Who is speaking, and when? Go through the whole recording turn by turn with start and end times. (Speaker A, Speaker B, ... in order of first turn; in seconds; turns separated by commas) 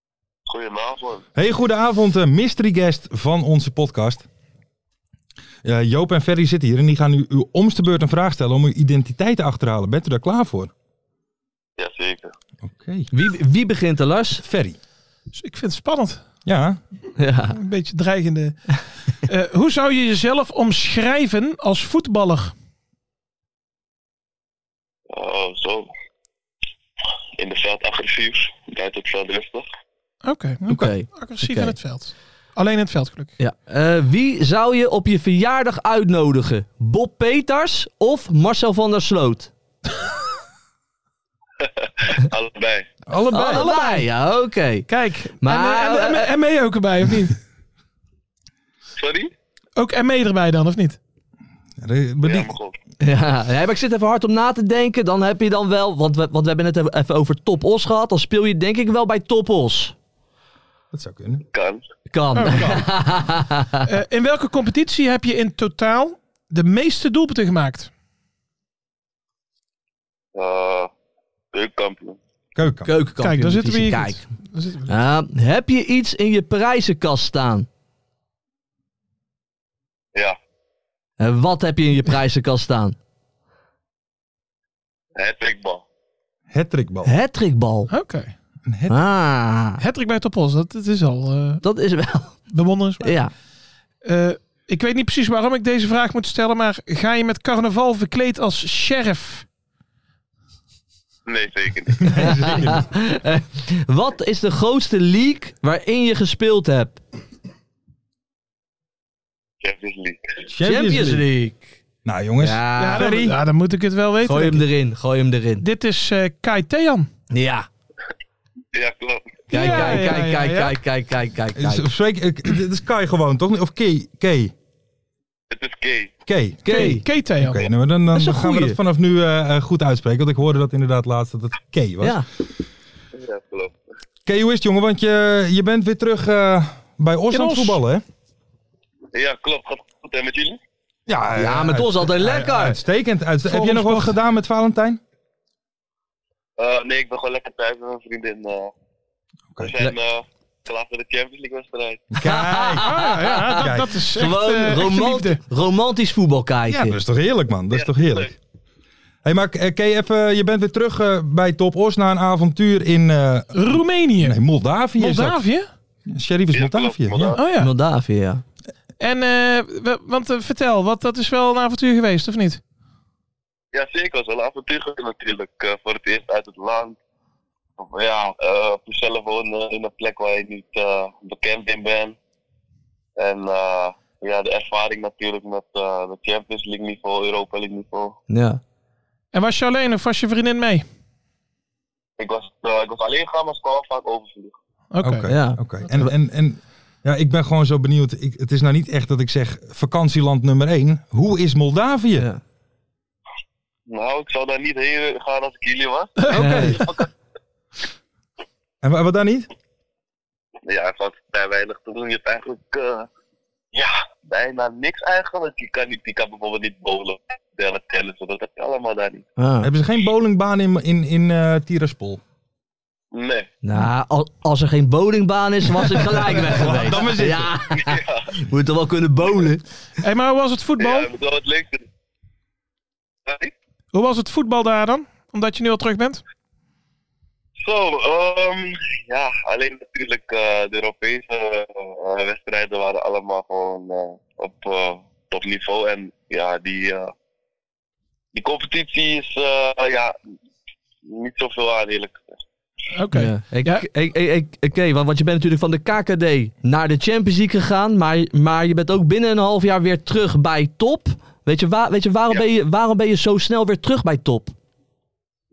Speaker A: 0.5-1.2, Speaker B: 1.3-4.2, Speaker B: 5.6-10.7, Speaker A: 11.8-12.3, Speaker B: 12.6-13.1, Speaker C: 13.1-14.4, Speaker B: 14.4-14.8, Speaker D: 15.3-16.2, Speaker B: 16.4-16.8, Speaker C: 17.2-17.6, Speaker D: 17.5-22.5, Speaker A: 25.1-25.9, Speaker A: 27.4-29.7, Speaker D: 30.2-33.3, Speaker B: 30.6-30.9, Speaker C: 30.7-31.8, Speaker C: 33.4-39.5, Speaker A: 41.6-42.9, Speaker B: 43.1-43.7, Speaker C: 43.3-44.9, Speaker D: 43.4-44.0, Speaker D: 44.9-47.4, Speaker C: 45.4-46.3, Speaker A: 49.0-49.3, Speaker D: 49.8-51.0, Speaker B: 51.8-52.5, Speaker A: 52.2-52.7, Speaker C: 53.0-59.9, Speaker B: 60.9-61.4, Speaker A: 61.5-61.9, Speaker C: 62.1-63.9, Speaker D: 62.3-62.8, Speaker B: 62.5-62.8, Speaker D: 63.9-67.9, Speaker A: 70.3-70.9, Speaker A: 71.5-72.2, Speaker B: 72.5-72.9, Speaker C: 72.8-74.2, Speaker D: 73.2-74.9, Speaker C: 74.9-77.7, Speaker C: 81.2-83.0, Speaker A: 85.2-85.8, Speaker B: 86.5-87.1, Speaker C: 87.0-87.9, Speaker D: 87.9-88.3, Speaker B: 88.7-88.9, Speaker C: 88.9-89.8, Speaker D: 89.8-91.6, Speaker C: 91.6-92.4, Speaker D: 92.5-93.2, Speaker C: 93.0-93.3, Speaker D: 94.0-99.5, Speaker A: 101.2-102.6, Speaker B: 102.0-102.8, Speaker C: 102.1-107.0, Speaker A: 109.6-110.4, Speaker B: 110.5-111.2, Speaker C: 110.6-111.8, Speaker B: 112.0-113.4, Speaker C: 112.4-113.1, Speaker D: 112.8-114.7, Speaker C: 114.2-115.6, Speaker D: 115.6-117.1, Speaker C: 117.3-117.7, Speaker A: 118.7-119.8, Speaker C: 119.5-121.8, Speaker D: 119.5-120.8, Speaker B: 121.5-124.5, Speaker A: 125.5-126.1, Speaker B: 126.2-132.2, Speaker C: 126.6-127.0, Speaker D: 126.7-127.7, Speaker C: 128.1-128.8, Speaker A: 133.1-133.7, Speaker B: 134.2-138.0, Speaker D: 137.3-137.8, Speaker A: 139.1-140.6, Speaker B: 141.1-145.0, Speaker C: 141.3-142.8, Speaker D: 143.4-144.2, Speaker A: 146.6-148.7, Speaker B: 149.5-149.9, Speaker A: 149.6-152.0, Speaker B: 152.1-152.9, Speaker C: 152.2-157.0, Speaker D: 152.8-155.4, Speaker B: 153.5-154.0, Speaker B: 156.7-158.3, Speaker A: 157.7-158.3, Speaker B: 159.2-165.4, Speaker D: 163.5-164.4, Speaker D: 165.0-165.7, Speaker B: 166.1-167.3, Speaker A: 166.5-167.4, Speaker D: 167.3-167.7, Speaker C: 167.5-168.4, Speaker D: 169.0-172.6, Speaker A: 173.7-177.0, Speaker A: 177.8-182.2, Speaker A: 183.2-188.2, Speaker C: 188.3-188.6, Speaker D: 189.3-190.8, Speaker A: 192.2-194.6, Speaker D: 194.9-195.3, Speaker B: 195.0-202.3, Speaker C: 195.3-196.1, Speaker A: 203.9-207.1, Speaker D: 206.2-206.8, Speaker B: 206.3-206.8, Speaker C: 206.3-206.8, Speaker B: 208.8-209.5, Speaker A: 210.7-213.1, Speaker A: 213.7-219.2, Speaker C: 219.4-219.7, Speaker B: 219.6-222.2, Speaker A: 223.1-223.5, Speaker C: 223.6-229.6, Speaker B: 226.1-227.5, Speaker A: 227.7-228.2, Speaker D: 230.0-231.1, Speaker A: 230.8-231.8, Speaker A: 233.2-233.5, Speaker D: 233.9-236.2, Speaker A: 237.6-247.1, Speaker A: 248.3-250.2, Speaker A: 251.0-252.4, Speaker D: 252.9-253.8, Speaker C: 253.1-264.5